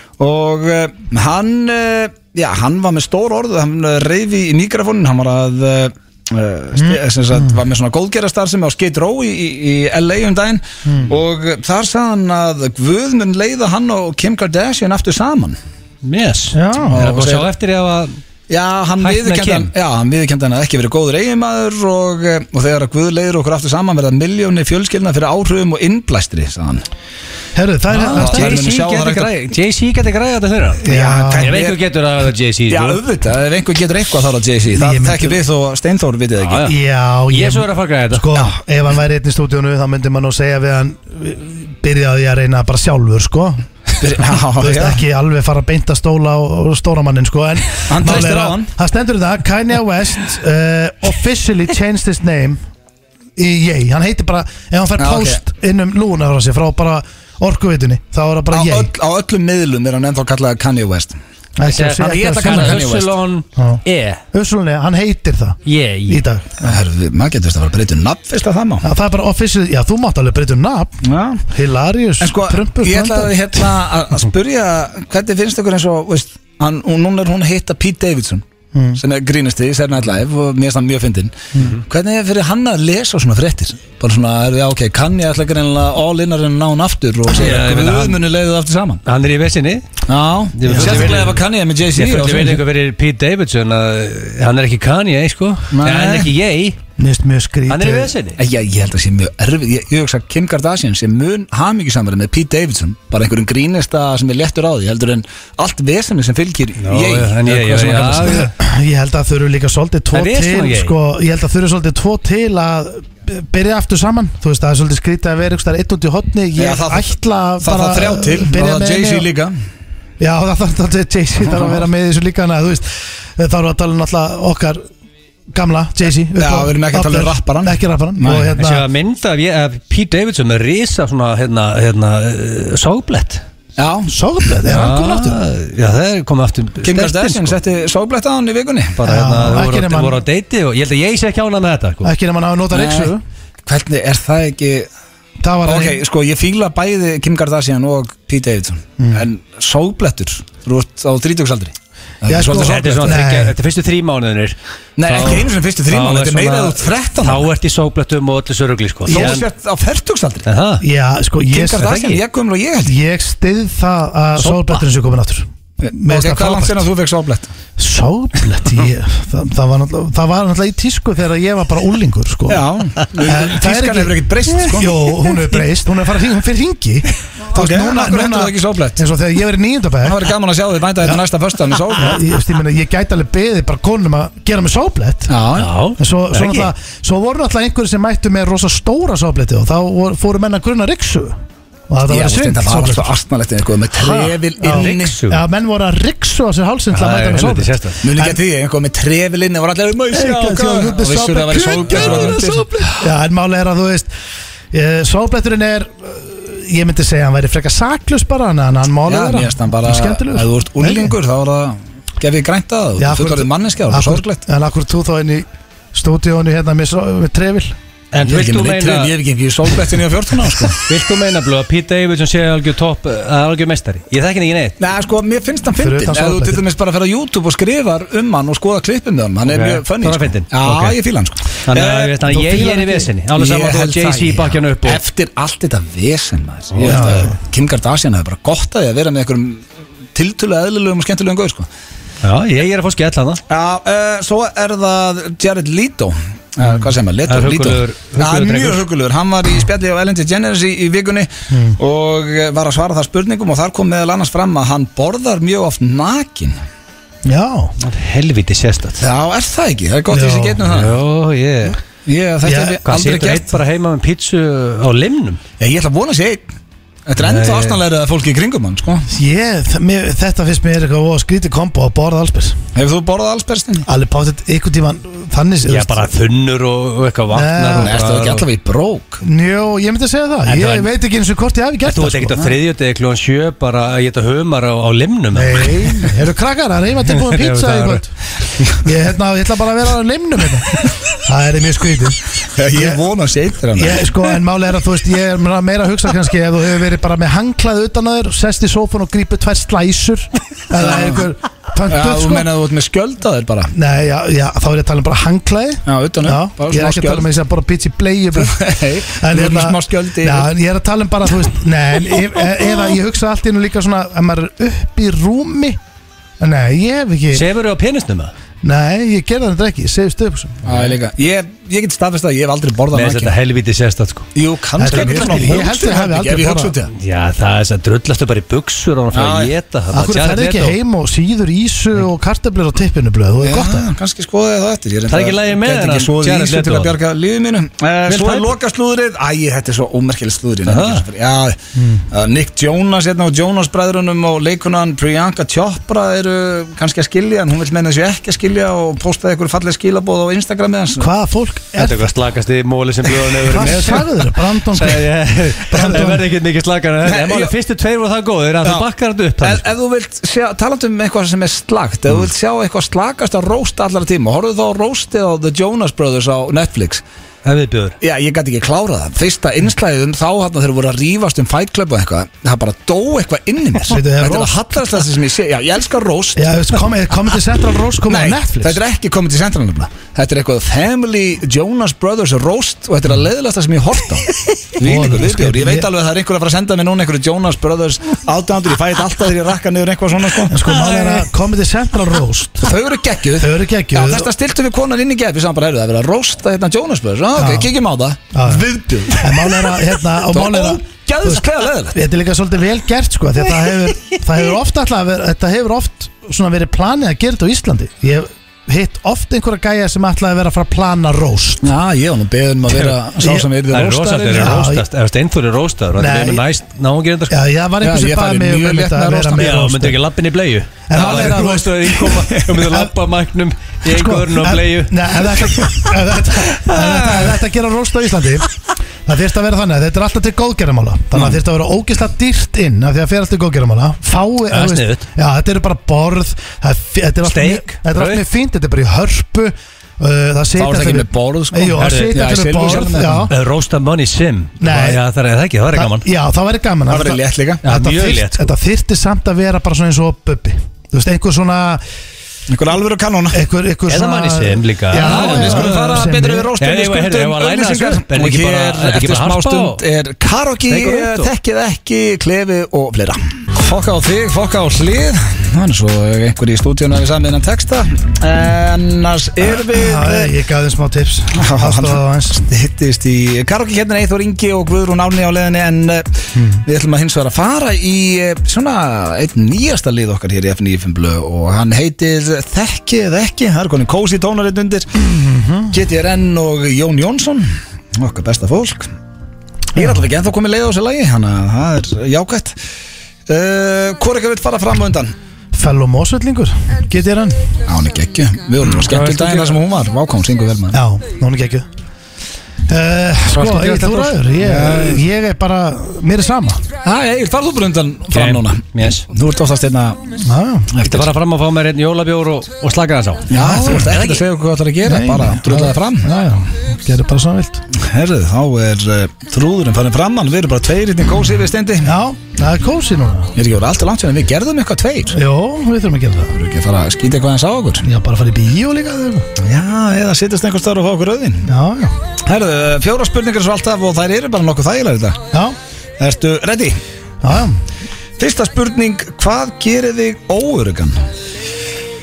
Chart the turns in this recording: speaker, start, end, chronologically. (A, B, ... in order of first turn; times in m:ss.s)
0:00.2-0:15.6 A
0:06.8-0:07.5 B
0:10.8-0:11.1 B
0:16.0-0:18.2 C
0:16.5-0:17.0 B
0:16.9-0:17.5 A
0:18.5-0:26.8 A
0:19.0-0:19.7 C
0:27.5-0:28.6 B
0:27.9-0:30.8 C
0:28.1-0:29.4 A
0:30.8-0:31.5 B
0:30.8-0:31.8 A
0:31.4-0:33.0 C
0:32.7-0:36.6 A
0:34.7-0:35.4 B
0:36.4-0:36.7 C
0:36.6-0:43.6 B
0:37.3-0:38.4 C
0:44.0-0:45.0 A
0:44.6-0:52.6 B
0:47.9-0:48.7 A
0:53.4-0:58.9 B
0:55.0-0:55.4 A
0:58.5-1:01.2 A
1:01.6-1:02.9 B
1:01.6-1:04.2 C
1:02.0-1:03.2 A
1:03.6-1:06.7 B
1:05.6-1:06.2 C
1:06.6-1:08.8 A
1:08.8-1:10.9 B
1:11.0-1:11.4 A
1:11.5-1:13.6 B
1:12.2-1:18.4 A
1:18.7-1:19.0 B
1:19.0-1:29.0 A
1:27.3-1:28.2 C
1:29.0-1:29.8 C
1:30.1-1:32.6 A
1:30.6-1:31.4 C
1:30.7-1:31.1 B
1:31.9-1:36.8 C
1:35.7-1:36.3 A
1:37.0-1:38.1 B
1:37.7-1:38.4 C
1:38.4-1:48.4 A
1:46.8-1:48.5 C
1:48.3-1:59.3 B
1:50.1-1:50.9 C
1:56.6-1:59.5 A
2:00.2-2:04.8 B
2:05.5-2:08.9 B
2:06.4-2:08.5 A
2:08.6-2:13.4 C
2:13.8-2:14.1 A
2:14.1-2:15.4 B
2:14.7-2:17.6 C
2:16.8-2:19.0 A
2:19.0-2:22.1 C
2:19.0-2:20.2 B
2:22.0-2:23.2 B
2:22.7-2:23.1 A
2:23.6-2:24.9 A
2:25.4-2:26.0 B
2:25.6-2:33.2 A
2:29.0-2:29.2 B
2:32.3-2:33.5 B
2:32.5-2:39.4 C
2:35.0-2:37.5 A
2:39.0-2:40.4 A
2:39.1-2:39.3 B
2:40.4-2:40.8 C
2:40.8-2:41.9 B
2:41.5-2:43.0 A
2:41.8-2:42.2 C
2:42.8-2:46.8 B
2:45.8-2:47.5 A
2:47.8-2:52.7 B
2:52.5-2:55.1 A
2:53.2-3:00.3 B
2:57.5-2:59.0 A
3:00.0-3:02.2 A
3:01.9-3:05.3 B
3:05.3-3:05.7 A
3:05.6-3:06.7 C
3:06.0-3:11.4 B
3:11.9-3:13.1 B
3:12.1-3:15.2 A
3:14.0-3:15.4 C
3:14.6-3:18.4 B
3:16.9-3:18.0 C
3:18.0-3:23.0 A
3:20.1-3:24.1 B
3:22.0-3:22.4 C
3:24.7-3:31.1 B
3:29.1-3:34.4 A
3:33.0-3:37.7 B
3:38.1-3:39.1 C
3:38.2-3:40.8 A
3:40.8-3:44.8 C
3:44.8-3:52.2 A
3:45.8-3:46.6 B
3:49.5-3:51.0 C
3:51.6-3:55.0 C
3:52.3-3:53.1 B
3:53.3-3:59.6 A
3:56.7-3:57.3 C
3:56.8-3:57.3 B
4:00.1-4:01.7 A
4:02.2-4:03.4 C
4:03.5-4:16.6 A
4:07.3-4:08.8 C
4:11.5-4:11.8 B
4:17.2-4:17.7 B
4:17.8-4:19.0 C
4:19.0-4:20.9 A
4:20.1-4:20.6 B
4:20.6-4:21.8 C
4:22.0-4:23.5 A
4:22.4-4:22.8 B
4:22.8-4:25.4 C
4:25.6-4:26.4 A
4:27.1-4:29.1 A
4:27.2-4:27.8 C
4:29.1-4:32.6 B
4:32.7-4:33.8 A
4:33.8-4:36.1 B
4:35.7-4:38.4 C
4:37.3-4:38.0 B
4:37.8-4:39.2 A
4:39.2-4:42.5 B
4:40.5-4:40.9 C
4:41.8-4:46.1 C
4:45.3-4:48.1 B
4:47.1-4:48.0 C
4:48.8-4:52.2 B
4:52.6-4:54.1 A
4:52.7-4:53.0 B
4:53.8-5:02.5 B
5:00.8-5:01.2 A
5:01.9-5:03.7 A
5:03.7-5:08.6 B
5:05.8-5:07.3 A
5:08.4-5:10.5 A
5:09.1-5:15.8 B
5:16.4-5:17.5 B
5:17.3-5:18.3 C
5:18.6-5:20.7 B
5:20.6-5:23.3 A
5:22.9-5:24.3 C
5:24.3-5:26.9 A
5:24.8-5:26.7 B
5:24.9-5:25.4 C
5:26.9-5:30.8 C
5:29.1-5:29.5 A
5:29.9-5:33.9 B
5:33.4-5:41.6 A
5:35.1-5:36.9 C
5:38.1-5:38.5 C
5:40.6-5:41.0 C
5:41.8-5:42.0 B
5:42.1-5:51.1 A
5:51.0-5:52.1 B
5:51.8-5:54.1 C
5:53.4-5:55.1 B
5:54.7-5:59.7 C
5:55.7-5:56.2 B
5:57.0-5:57.5 A
5:59.4-6:07.0 A
6:07.4-6:08.0 C
6:08.0-6:16.4 A
6:13.8-6:14.8 B
6:16.4-6:18.8 B
6:18.1-6:30.6 A
6:24.8-6:25.9 B
6:30.5-6:32.7 B
6:30.7-6:31.2 C
6:32.6-6:42.0 A
6:33.4-6:34.3 B
6:37.4-6:37.7 B
6:38.3-6:51.7 B
6:51.6-6:54.6 A
6:53.7-6:57.4 C
6:54.3-6:54.8 B
6:56.0-6:56.4 B
6:57.3-7:00.0 B
6:57.8-6:59.6 A
6:59.4-7:05.2 C
7:00.9-7:01.9 B
7:01.0-7:01.5 A
7:02.0-7:02.4 A
7:02.6-7:02.9 B
7:03.8-7:08.5 B
7:09.0-7:23.3 B
7:14.5-7:15.0 C
7:17.2-7:18.2 C
7:20.6-7:23.3 A
7:21.8-7:22.2 C
7:23.3-7:26.0 C
7:24.6-7:25.0 B
7:25.7-7:31.8 B
7:26.9-7:27.6 A
7:27.6-7:28.5 C
7:32.5-7:33.4 A
7:33.3-7:36.5 B
7:33.9-7:39.8 C
7:34.9-7:50.3 A
7:40.7-7:41.3 C
7:49.5-7:52.4 B
7:51.3-8:04.9 A
7:56.4-7:56.6 B
8:05.0-8:05.7 B
8:05.7-8:08.9 A
8:09.7-8:10.0 B
8:09.7-8:12.6 A
8:13.3-8:15.1 A
8:15.5-8:17.5 B
8:17.6-8:20.8 A
8:18.7-8:19.6 C
8:20.7-8:21.7 B
8:22.7-8:26.6 B
8:23.3-8:24.2 C
8:24.4-8:25.0 A
8:26.8-8:30.0 A
8:28.1-8:29.1 C
8:30.2-8:30.7 B
8:30.7-8:31.1 A
8:30.8-8:34.2 C
8:33.3-8:36.1 A
8:33.3-8:33.9 B
8:34.8-8:37.6 B
8:37.7-8:41.9 A
8:41.8-8:43.3 B
8:43.4-8:45.2 A
8:45.1-8:46.3 B
8:46.3-8:47.9 A
8:47.8-8:49.3 B
8:49.4-8:51.5 A
8:51.4-8:52.0 B
8:52.2-8:55.2 A
8:56.0-8:56.8 A
8:57.2-8:57.6 B
8:58.2-9:01.0 A